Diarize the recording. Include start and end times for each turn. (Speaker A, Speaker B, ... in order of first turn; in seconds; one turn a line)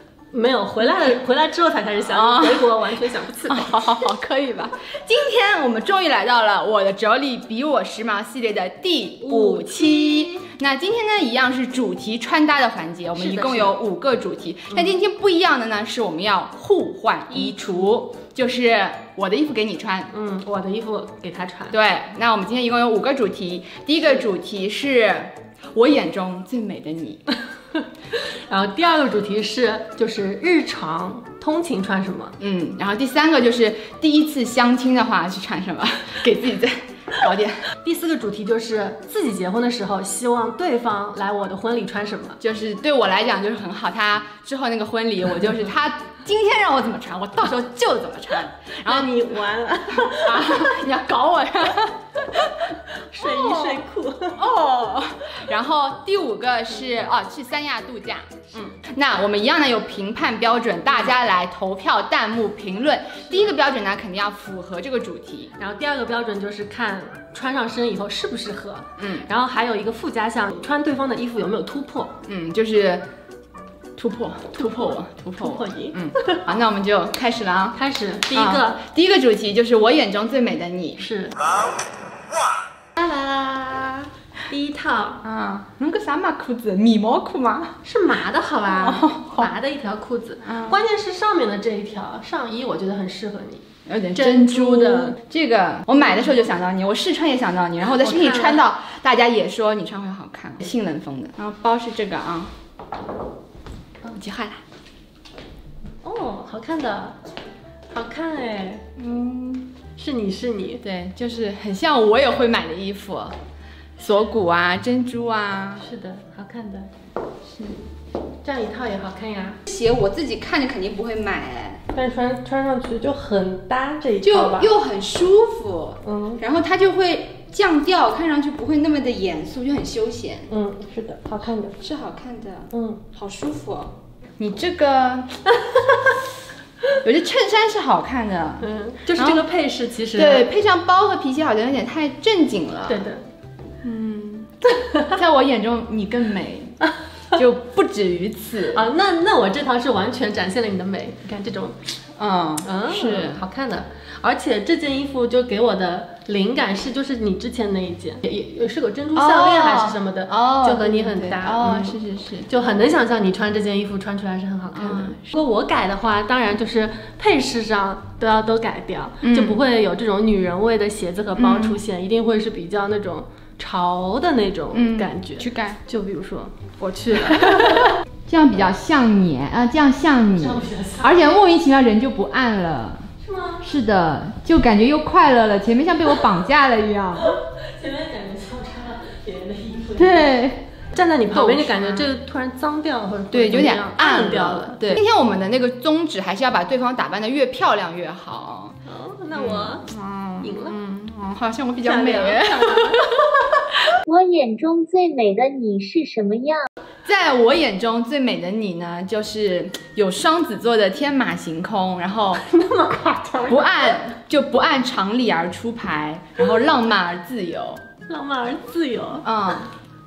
Speaker A: 0.3-4.1
Speaker B: 2.0-20.1
Speaker A: 9.2-10.4
Speaker A: 13.2-13.8
Speaker A: 14.7-14.9
Speaker A: 17.4-17.7
Speaker A: 20.1-21.8
Speaker B: 21.7-27.2
Speaker A: 27.7-32.4
Speaker B: 32.4-37.6
Speaker A: 37.8-42.4
Speaker B: 42.4-52.5
Speaker A: 48.9-50.8
Speaker A: 52.7-54.4
Speaker B: 53.2-53.8
Speaker B: 54.4-65.5
Speaker A: 63.2-63.5
Speaker A: 65.6-72.1
Speaker B: 69.0-69.3
Speaker B: 72.3-73.0
Speaker B: 74.0-77.8
Speaker A: 74.5-76.4
Speaker A: 77.7-78.8
Speaker B: 78.3-81.0
Speaker A: 81.0-81.3
Speaker A: 83.0-85.2
Speaker B: 85.2-87.8
Speaker A: 87.8-93.6
Speaker B: 88.6-89.5
Speaker B: 90.4-90.8
Speaker B: 93.8-102.5
Speaker A: 94.2-95.2
Speaker A: 96.0-96.4
Speaker A: 97.8-98.6
Speaker B: 104.0-104.6
Speaker A: 106.0-107.2
Speaker A: 107.9-108.8
Speaker B: 109.0-109.8
Speaker A: 110.0-110.8
Speaker B: 110.8-113.3
Speaker B: 114.0-115.8
Speaker A: 115.8-116.9
Speaker B: 117.5-117.8
Speaker A: 118.4-119.6
Speaker B: 119.7-121.8
Speaker A: 121.9-124.7
Speaker B: 124.2-130.5
Speaker A: 126.0-126.4
Speaker A: 130.5-131.8
Speaker B: 131.8-135.4
Speaker A: 132.7-133.0
Speaker A: 135.6-136.2
Speaker B: 137.0-139.4
Speaker A: 138.6-140.4
Speaker B: 140.1-143.1
Speaker A: 142.9-143.2
Speaker B: 143.8-146.7
Speaker A: 144.8-145.1
Speaker B: 147.3-148.8
Speaker A: 148.7-151.8
Speaker B: 152.2-153.4
Speaker A: 152.6-177.9
Speaker B: 159.1-162.5
Speaker B: 164.7-165.2
Speaker B: 169.2-169.6
Speaker B: 171.4-171.8
Speaker B: 174.7-175.8
Speaker B: 177.1-183.1
Speaker A: 180.3-181.3
Speaker A: 183.2-183.6
Speaker B: 183.6-187.3
Speaker A: 187.2-194.9
Speaker B: 189.9-190.7
Speaker B: 191.3-192.1
Speaker B: 193.3-198.8
Speaker A: 198.8-199.9
Speaker B: 199.3-203.2
Speaker A: 200.4-200.8
Speaker A: 201.8-203.7
Speaker C: 204.1-206.7
Speaker B: 207.0-212.4
Speaker A: 212.4-214.0
Speaker B: 213.5-217.8
Speaker A: 218.1-219.6
Speaker B: 219.2-219.7